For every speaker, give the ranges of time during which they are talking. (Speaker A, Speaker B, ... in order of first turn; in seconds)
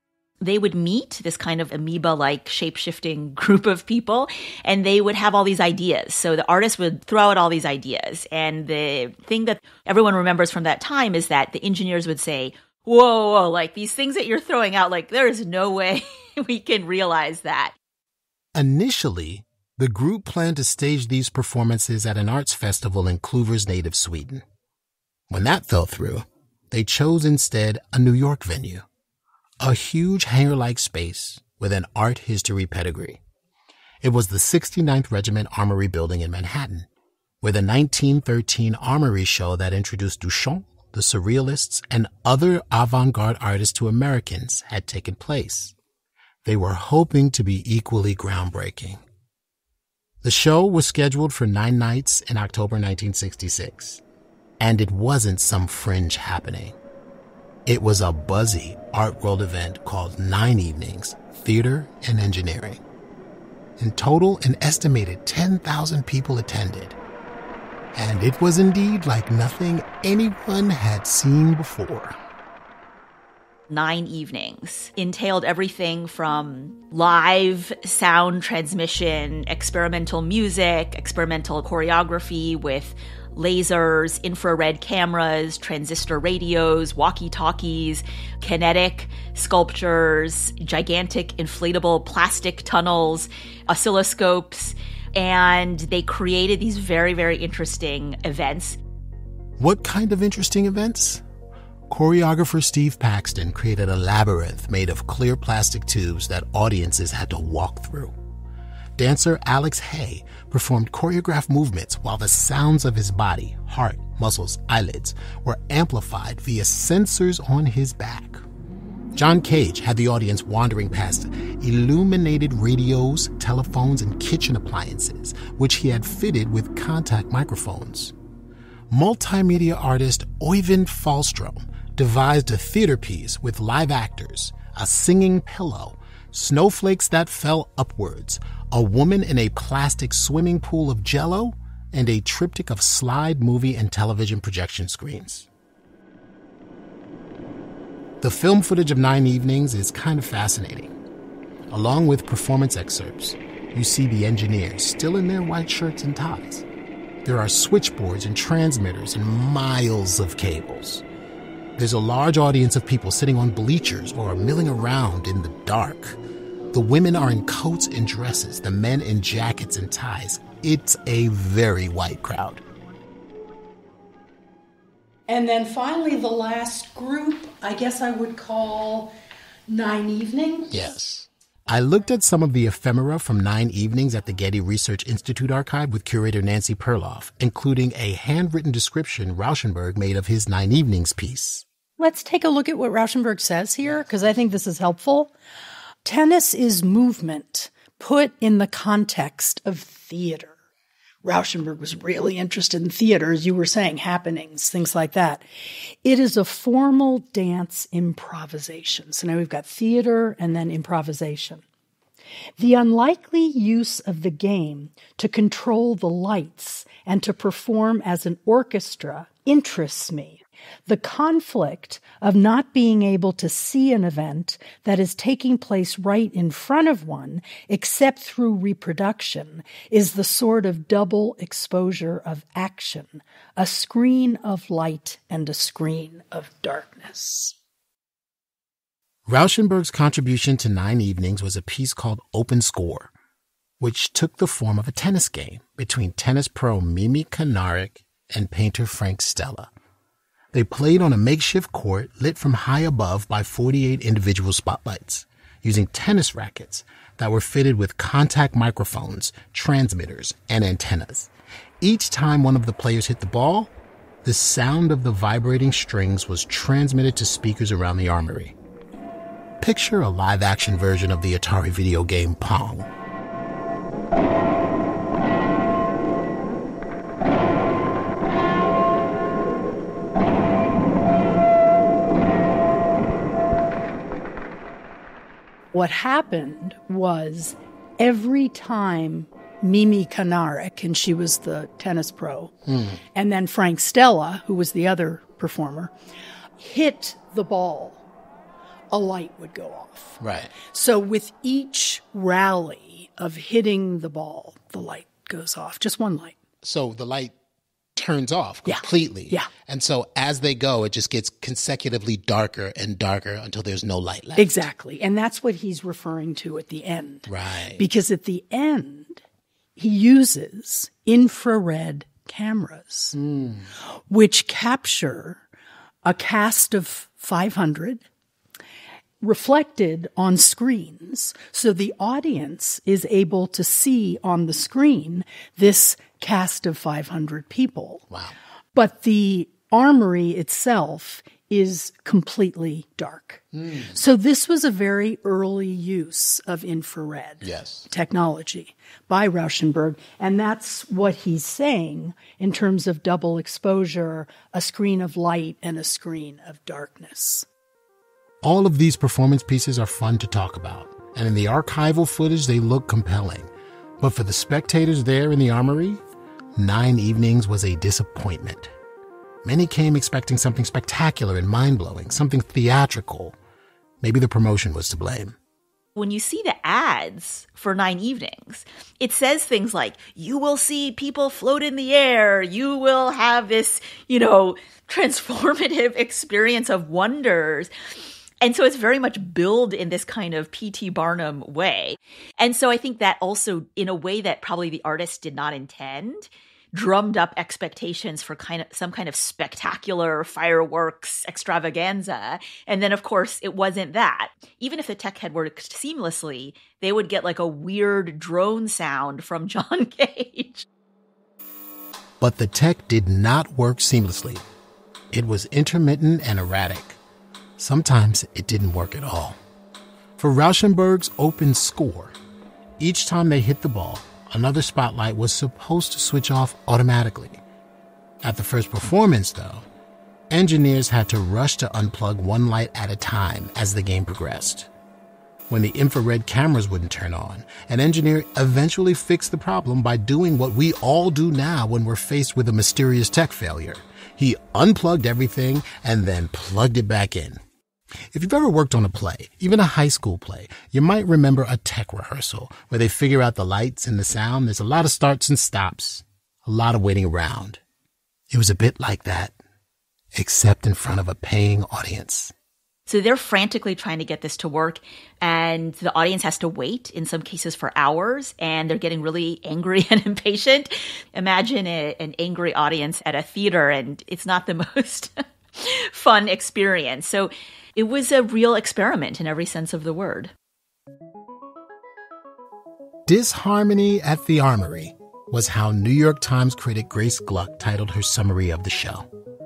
Speaker A: 0.4-17.8, 73.7-98.8, 375.9-387.7, 388.4-410.7, 462.9-480.3
Speaker B: 18.5-24.4, 25.3-28.9, 29.6-33.2, 34.0-36.9, 37.4-45.8, 46.5-49.0, 50.2-54.0, 54.6-56.8, 57.6-62.8, 63.8-67.0, 67.9-72.1, 99.6-101.2, 101.9-108.1, 109.0-118.4, 119.1-128.1, 128.9-145.5, 148.2-150.9, 151.7-156.7, 157.2-161.1, 161.8-166.2, 166.7-172.6, 180.7-191.6, 239.3-243.1, 243.8-249.7, 250.5-261.3, 261.8-263.7, 264.2-268.6, 269.6-272.9, 292.6-293.0, 300.2-300.5, 306.6-307.3, 307.9-314.5, 317.3-317.9, 323.1-323.7, 338.1-338.4, 343.5-344.0, 347.4-347.9, 358.4-366.0, 366.6-368.7, 369.4-373.4, 374.0-375.4, 412.2-414.4, 415.1-417.0, 417.6-419.4, 420.2-422.1, 422.8-427.4, 428.2-429.6, 430.3-434.7, 435.5-447.4, 448.1-457.6, 458.3-459.4, 460.1-462.3, 483.1-489.1
Speaker C: 175.3-179.1, 179.7-180.7, 192.0-195.3, 196.0-200.6, 201.2-205.4, 206.0-211.6, 212.6-237.6, 285.7-292.5, 293.1-295.9, 296.6-298.0, 298.9-306.4, 308.6-309.5, 314.4-319.2, 319.8-323.1, 324.1-325.4, 326.1-328.0, 329.2-338.0, 338.7-357.4